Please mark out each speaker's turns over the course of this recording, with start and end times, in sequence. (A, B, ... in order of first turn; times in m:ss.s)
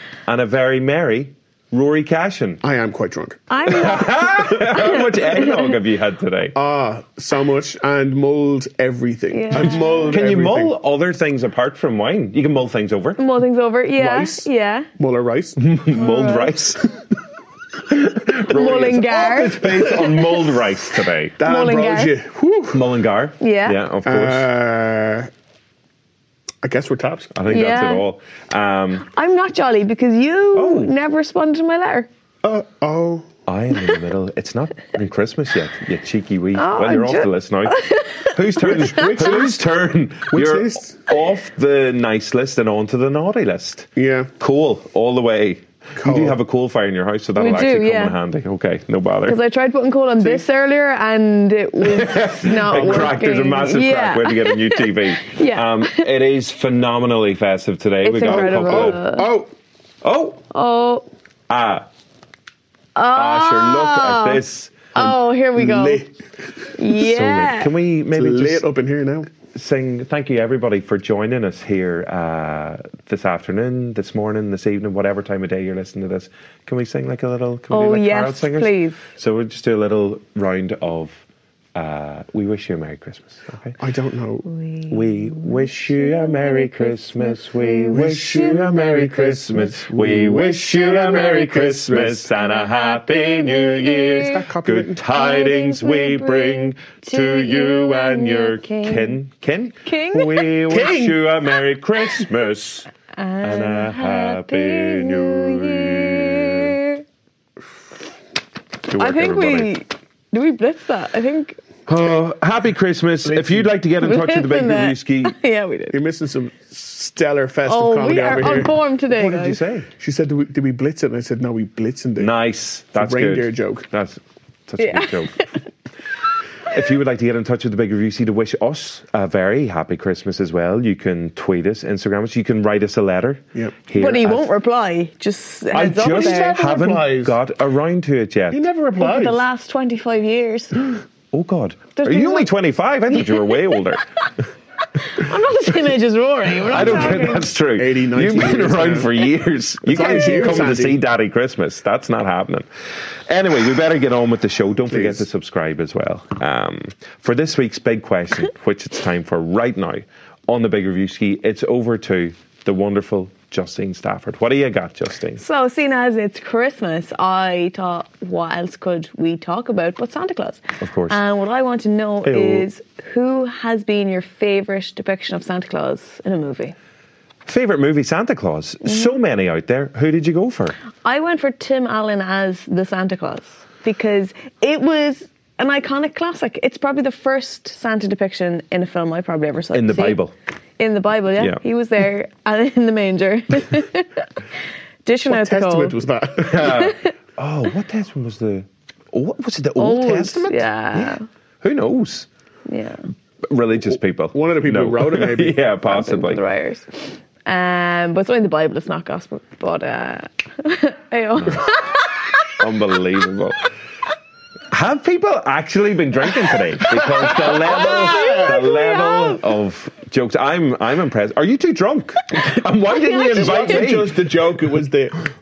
0:00.3-0:02.6 A
0:02.6-0:03.4 B
0:03.5-0:05.7 C
0:03.7-0:06.6 A
0:06.5-0:10.7 B
0:09.3-0:10.2 C
0:09.5-0:13.2 A
0:13.2-0:14.9 C
0:14.0-0:15.6 B
0:15.6-0:16.8 A
0:15.9-0:16.5 C
0:17.9-0:21.4 A
0:18.5-0:19.6 C
0:21.4-0:22.8 B
0:21.4-0:22.1 C
0:22.7-0:24.5 A
0:23.4-0:23.8 C
0:24.0-0:25.3 B
0:26.6-0:27.3 B
0:27.3-0:29.0 A
0:27.5-0:28.0 C
0:29.1-0:32.1 C
0:30.5-0:30.9 A
0:32.4-0:33.2 B
0:33.4-0:49.4 A
0:36.6-0:39.0 C
0:38.6-0:39.6 B
0:40.3-0:41.0 B
0:44.0-0:44.3 B
0:46.0-0:46.4 B
0:47.4-0:48.2 C
0:49.3-0:56.0 C
0:51.8-0:59.0 A
0:58.0-0:59.3 C
0:58.2-0:59.5 B
1:00.0-1:00.4 A
1:00.5-1:01.0 C
1:01.5-1:01.8 A
1:03.0-1:04.4 C
1:03.1-1:04.8 A
1:04.9-1:06.0 C
1:05.0-1:06.1 B
1:06.8-1:07.7 C
1:06.9-1:08.6 A
1:08.1-1:09.3 B
1:09.5-1:21.2 A
1:17.7-1:19.0 C
1:21.7-1:23.8 A
1:23.8-1:24.4 B
1:24.5-1:29.0 C
1:24.9-1:42.9 A
1:27.9-1:32.2 B
1:32.4-1:34.3 C
1:34.2-1:35.0 B
1:35.1-1:39.2 C
1:39.8-1:40.6 C
1:40.4-1:41.1 B
1:43.2-1:47.0 C
1:43.4-1:46.8 A
1:48.9-1:49.7 A
1:49.0-1:51.6 C
1:51.9-1:55.3 A
1:53.2-1:53.7 B
1:54.0-1:56.0 C
1:55.9-1:58.7 B
1:57.7-1:59.6 C
1:59.1-1:59.9 A
2:00.0-2:02.3 B
2:02.2-2:05.6 A
2:02.9-2:03.8 B
2:04.8-2:05.3 C
2:06.7-2:14.5 A
2:13.9-2:16.6 C
2:15.7-2:18.6 A
2:16.0-2:17.4 B
2:18.5-2:19.4 B
2:19.0-2:21.0 C
2:21.3-2:24.0 A
2:22.0-2:22.5 C
2:23.2-2:23.6 C
2:25.1-2:27.5 C
2:26.6-2:32.7 A
2:26.7-2:29.1 B
2:29.9-2:31.0 B
2:33.3-2:45.4 A
2:34.9-2:35.2 B
2:45.4-2:56.7 C
2:50.8-2:51.2 A
2:52.2-2:52.6 A
2:57.4-3:00.8 A
3:01.0-3:10.2 C
3:09.7-3:10.3 A
3:10.8-3:14.1 C
3:15.0-3:16.0 C
3:15.2-3:16.8 B
3:16.4-3:22.3 A
3:16.6-3:17.1 C
3:19.8-3:21.2 C
3:22.7-3:23.0 C
3:23.4-3:26.4 A
3:24.3-3:25.6 B
3:25.8-3:32.0 C
3:32.6-3:33.6 A
3:34.7-3:44.2 A
3:37.2-3:39.4 C
3:42.9-3:43.8 C
3:43.3-3:45.2 B